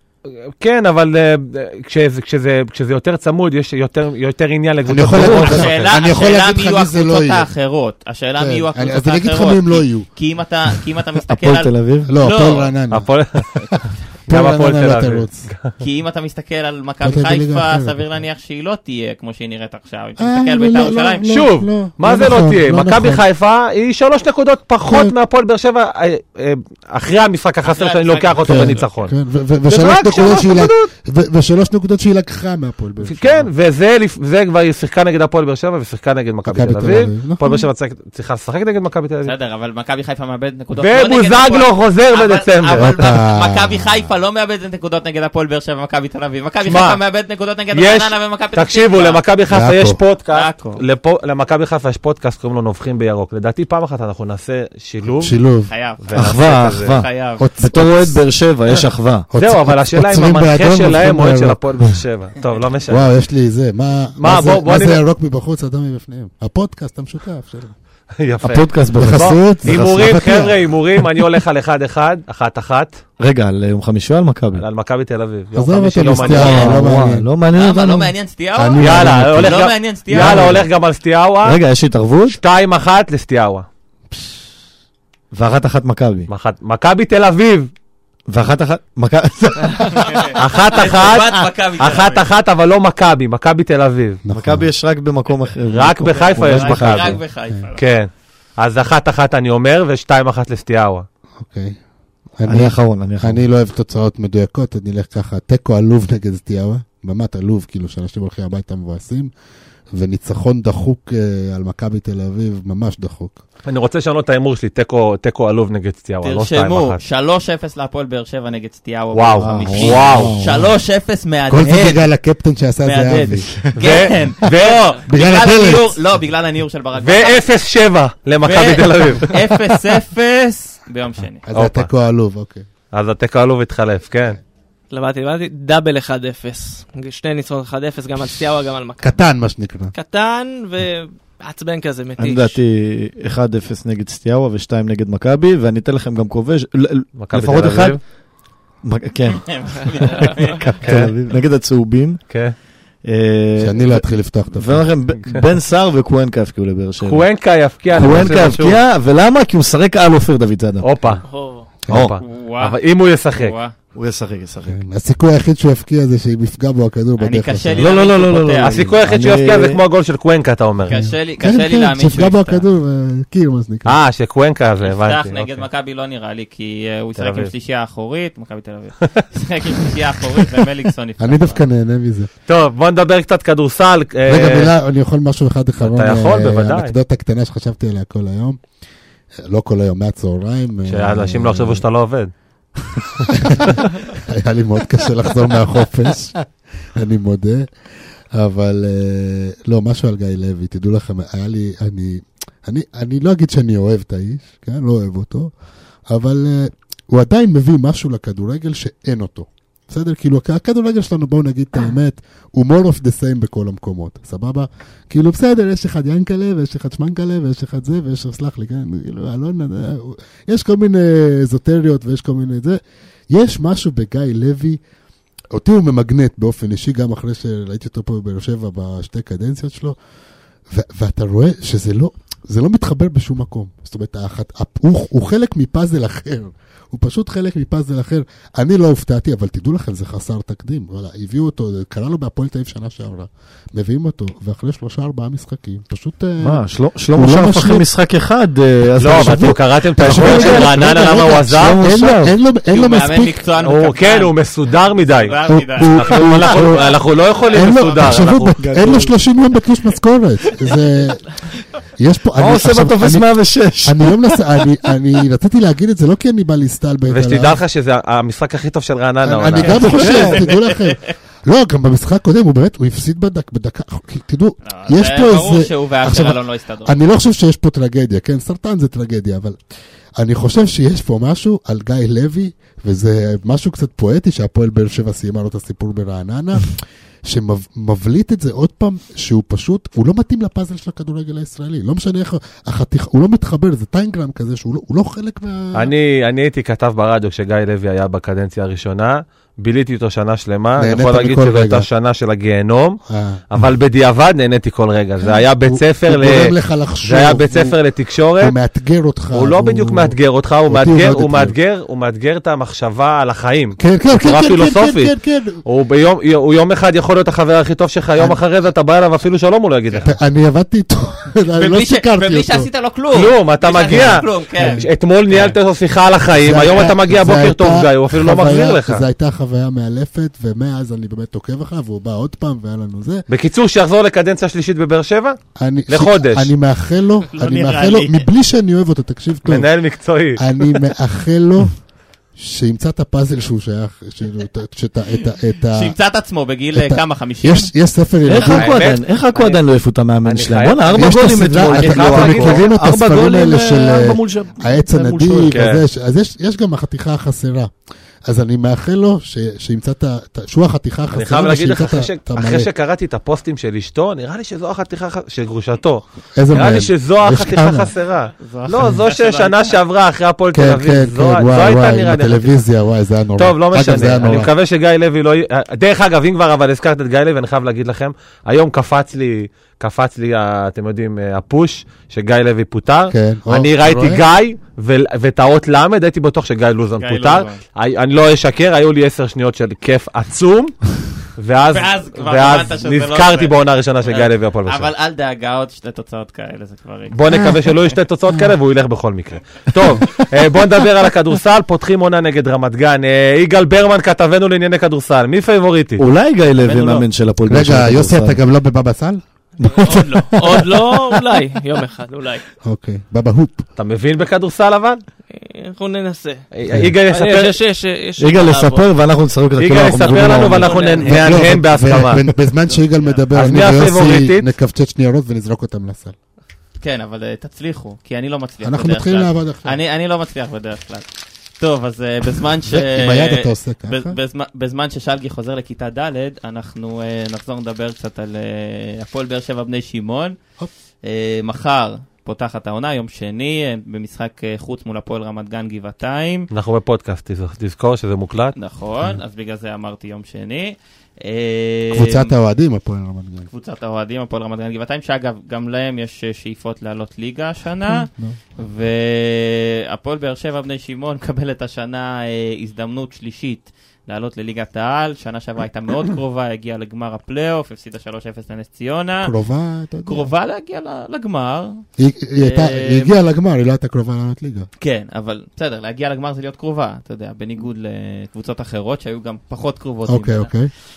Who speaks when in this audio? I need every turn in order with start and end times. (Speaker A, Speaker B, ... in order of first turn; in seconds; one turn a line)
Speaker A: 0.6-5.9
Speaker B: 4.8-7.5
Speaker C: 5.2-11.7
Speaker B: 8.4-10.1
Speaker D: 11.3-12.1
Speaker B: 12.1-13.1
Speaker C: 12.2-12.7
Speaker A: 12.9-13.5
Speaker B: 14.3-15.4
Speaker A: 14.3-15.7
Speaker C: 15.8-21.4
Speaker B: 17.0-18.0
Speaker B: 20.2-23.2
Speaker A: 21.3-29.1
Speaker B: 24.8-25.1
Speaker C: 27.6-28.9
Speaker B: 28.4-33.5
Speaker A: 29.7-30.9
Speaker A: 33.0-39.3
Speaker B: 36.4-37.6
Speaker C: 39.2-49.2
Speaker A: 40.8-42.9
Speaker B: 42.7-44.0
Speaker A: 46.6-47.0
Speaker A: 47.7-55.3
Speaker B: 49.5-50.0
Speaker C: 50.3-50.8
Speaker B: 55.2-55.7
Speaker C: 55.7-57.5
Speaker A: 56.1-56.9
Speaker D: 56.1-57.0
Speaker B: 57.4-58.2
Speaker D: 57.6-59.3
Speaker B: 59.3-62.0
Speaker A: 59.4-63.0
Speaker B: 62.9-67.7
Speaker A: 64.2-65.0
Speaker A: 68.2-73.0
Speaker D: 68.4-70.0
Speaker B: 68.9-71.0
Speaker D: 73.2-74.7
Speaker A: 74.6-76.8
Speaker B: 75.5-77.2
Speaker D: 76.1-78.1
Speaker C: 76.2-76.8
Speaker C: 77.5-80.5
Speaker B: 78.5-79.6
Speaker A: 78.8-81.6
Speaker D: 80.1-80.7
Speaker D: 81.4-82.4
Speaker A: 82.4-83.7
Speaker D: 85.3-86.3
Speaker A: 86.3-87.7
Speaker D: 88.3-90.3
Speaker C: 89.9-92.3
Speaker A: 90.4-94.2
Speaker B: 94.2-94.7
Speaker D: 94.3-97.2
Speaker A: 95.7-97.2
Speaker C: 96.0-97.8
Speaker A: 97.8-101.0
Speaker B: 101.4-101.8
Speaker B: 102.4-109.3
Speaker D: 102.5-103.4
Speaker B: 109.9-113.4
Speaker A: 113.7-117.0
Speaker C: 116.2-122.1
Speaker A: 119.1-120.3
Speaker D: 119.5-119.9
Speaker B: 119.5-120.7
Speaker B: 121.5-123.6
Speaker C: 122.8-127.5
Speaker A: 123.8-125.0
Speaker B: 125.1-126.0
Speaker A: 127.0-129.3
Speaker C: 128.4-131.4
Speaker B: 131.4-132.7
Speaker A: 131.5-131.9
Speaker A: 132.9-134.4
Speaker E: 134.9-139.2
Speaker B: 139.0-139.9
Speaker E: 139.9-142.6
Speaker D: 142.2-148.0
Speaker A: 147.2-148.0
Speaker D: 148.8-152.2
Speaker C: 149.5-150.7
Speaker A: 150.8-151.1
Speaker D: 153.0-154.0
Speaker B: 153.6-154.9
Speaker D: 154.5-157.3
Speaker A: 157.0-158.8
Speaker D: 157.9-160.9
Speaker A: 160.8-161.2
Speaker E: 161.2-161.7
Speaker D: 161.9-162.2
Speaker A: 161.9-163.5
Speaker C: 162.2-162.8
Speaker C: 163.3-163.7
Speaker D: 163.9-164.8
Speaker B: 164.6-167.9
Speaker C: 167.2-168.8
Speaker D: 167.8-169.8
Speaker A: 168.7-171.0
Speaker B: 168.7-169.2
Speaker C: 170.9-172.6
Speaker B: 170.9-174.0
Speaker A: 173.9-175.6
Speaker C: 174.8-181.6
Speaker A: 177.2-177.5
Speaker B: 181.2-182.3
Speaker A: 182.5-184.7
Speaker B: 184.3-188.6
Speaker A: 185.8-186.9
Speaker B: 189.4-191.8
Speaker A: 190.9-192.3
Speaker B: 193.2-196.4
Speaker B: 196.9-197.7
Speaker B: 198.3-205.5
Speaker B: 206.1-222.8
Speaker B: 223.3-224.8
Speaker B: 225.5-229.9
Speaker B: 230.7-247.9
Speaker D: 246.4-252.3
Speaker A: 249.0-251.8
Speaker B: 249.0-253.4
Speaker C: 252.7-254.3
Speaker A: 253.6-255.3
Speaker C: 255.1-256.6
Speaker B: 255.4-256.8
Speaker A: 255.9-258.6
Speaker B: 257.5-261.2
Speaker D: 258.6-259.1
Speaker B: 262.0-263.3
Speaker D: 262.4-264.4
Speaker B: 263.8-267.6
Speaker A: 267.1-270.4
Speaker B: 269.2-279.6
Speaker D: 269.7-270.5
Speaker C: 269.9-270.9
Speaker C: 274.6-277.0
Speaker B: 280.2-295.9
Speaker A: 295.8-303.0
Speaker B: 300.8-301.9
Speaker B: 303.1-303.4
Speaker A: 303.5-306.5
Speaker B: 305.2-307.8
Speaker A: 307.0-308.5
Speaker B: 308.4-310.1
Speaker A: 309.3-315.1
Speaker B: 310.7-311.6
Speaker B: 313.8-315.6
Speaker A: 315.6-320.1
Speaker B: 320.0-322.7
Speaker C: 321.6-324.8
Speaker A: 323.1-329.0
Speaker B: 324.0-325.6
Speaker B: 326.3-333.2
Speaker A: 333.3-335.4
Speaker B: 335.6-339.7
Speaker A: 335.9-336.5
Speaker C: 337.3-338.3
Speaker A: 339.4-340.4
Speaker B: 340.4-341.7
Speaker B: 342.4-345.9
Speaker C: 345.7-347.7
Speaker B: 346.7-348.8
Speaker D: 348.2-355.6
Speaker A: 348.4-349.0
Speaker A: 350.2-352.7
Speaker B: 350.9-357.7
Speaker A: 355.5-355.8
Speaker B: 358.3-362.7
Speaker A: 361.1-372.5
Speaker B: 366.4-367.9
Speaker C: 368.4-369.8
Speaker B: 370.5-374.5
Speaker A: 373.4-390.8
Speaker B: 383.1-384.2
Speaker C: 387.0-387.6
Speaker A: 391.4-394.9
Speaker C: 391.7-397.2
Speaker A: 397.1-406.0
Speaker B: 397.3-397.6
Speaker D: 406.0-408.4
Speaker C: 406.6-407.0
Speaker B: 407.4-409.2
Speaker D: 409.6-410.0
Speaker E: 409.7-412.4
Speaker B: 412.6-413.6
Speaker A: 413.8-415.0
Speaker E: 415.3-416.4
Speaker A: 416.5-417.5
Speaker E: 417.1-418.9
Speaker D: 418.2-420.7
Speaker A: 419.6-422.2
Speaker E: 420.1-421.3
Speaker C: 420.5-421.2
Speaker B: 421.1-426.1
Speaker C: 422.9-423.2
Speaker A: 423.3-424.5
Speaker C: 426.8-431.1
Speaker B: 428.6-429.8
Speaker C: 431.6-440.4
Speaker B: 432.7-434.1
Speaker C: 441.0-446.5
Speaker A: 446.5-448.5
Speaker C: 448.5-452.3
Speaker B: 451.9-453.5
Speaker C: 453.5-469.3
Speaker B: 457.9-458.4
Speaker B: 469.2-470.3
Speaker C: 470.1-471.8
Speaker B: 472.0-474.7
Speaker C: 472.4-473.1
Speaker C: 474.8-480.5
Speaker B: 480.1-480.7